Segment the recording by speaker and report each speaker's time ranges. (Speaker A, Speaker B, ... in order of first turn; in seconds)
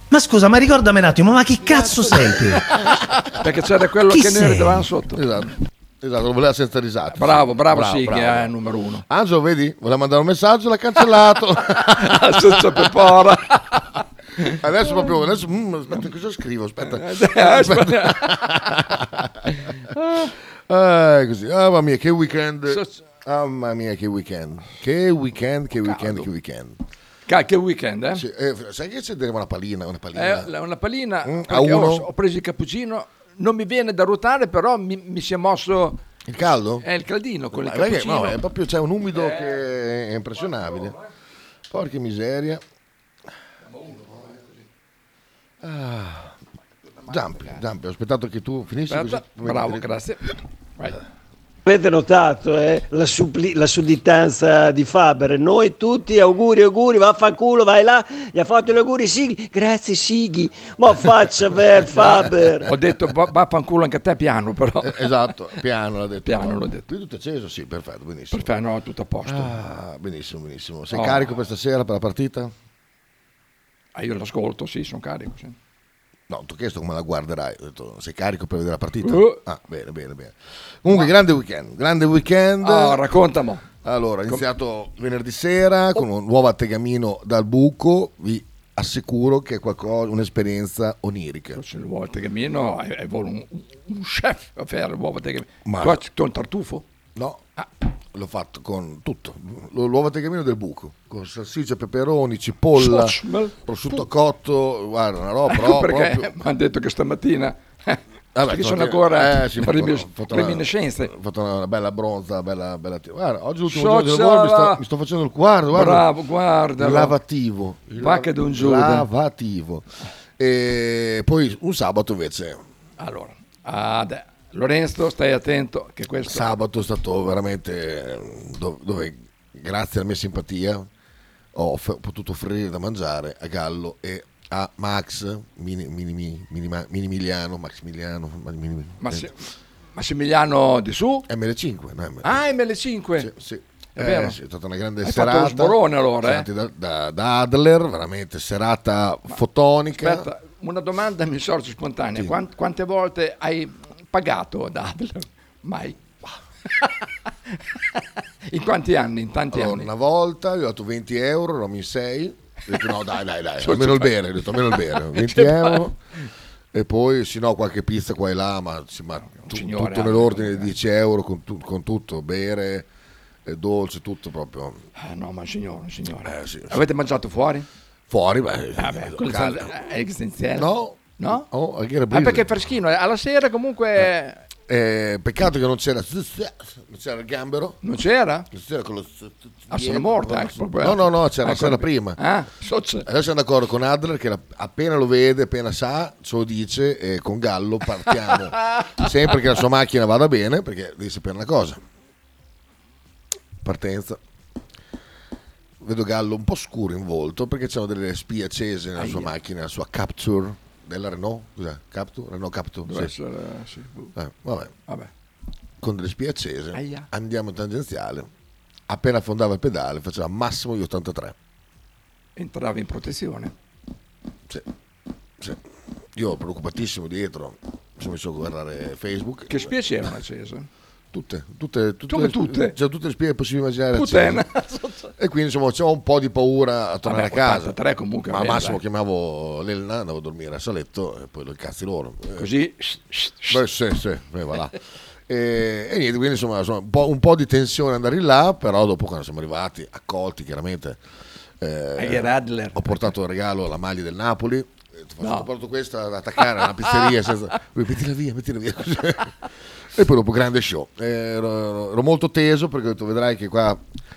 Speaker A: 0.1-2.7, 4.1-4.9
Speaker B: 3.2-5.2, 7.2-9.1, 11.9-14.0, 16.9-18.5, 19.9-20.3, 25.8-26.3, 27.3-28.2, 30.1-36.0, 36.8-38.4, 43.8-44.5, 48.9-51.0, 62.7-65.1, 66.3-66.8, 68.3-69.6, 70.9-71.3, 74.0-75.6, 79.0-79.4, 82.6-83.7, 91.6-96.8, 102.8-104.0, 105.5-111.1, 113.7-114.8, 115.7-117.2, 118.0-119.1, 123.0-126.6, 139.0-139.3, 139.9-141.3, 142.2-143.3, 144.0-144.4, 145.0-146.5, 150.0-156.0, 158.5-159.9, 163.6-165.8, 169.3-170.8, 175.0-177.7, 178.8-181.5, 182.1-184.4, 187.8-188.5, 189.7-193.1, 209.0-209.3, 212.9-214.1, 216.8-217.1, 222.4-223.5, 229.5-230.7, 232.1-232.7, 233.9-235.1, 237.0-238.8, 242.4-243.6, 252.0-253.1, 255.2-255.5, 256.8-257.2
Speaker C: 5.1-8.5, 9.1-12.8, 14.4-19.6, 20.7-26.8, 28.1-30.5, 31.2-32.1, 36.3-36.9, 37.5-41.0, 41.7-42.6, 45.6-46.4, 47.1-49.8, 64.8-68.5, 69.2-72.5, 76.3-83.0, 83.8-91.6, 95.7-96.0, 97.2-97.4, 98.1-106.3, 108.3-116.0, 116.8-119.9, 120.4-122.6, 126.3-130.9, 131.6-139.3, 141.3-142.4, 143.2-150.3, 159.5-166.0, 166.7-172.9, 173.5-174.8, 176.2-176.8, 178.1-179.7, 180.6-182.5, 184.7-187.8, 188.5-192.2, 193.1-201.8, 203.6-204.2, 205.8-213.1, 214.2-214.7, 215.8-218.3, 218.9-221.3, 226.2-229.7, 231.1-234.4, 235.2-237.8, 238.3-242.5, 243.5-244.8, 245.3-251.0, 251.6-259.4, 259.9-263.8
Speaker D: 51.6-62.7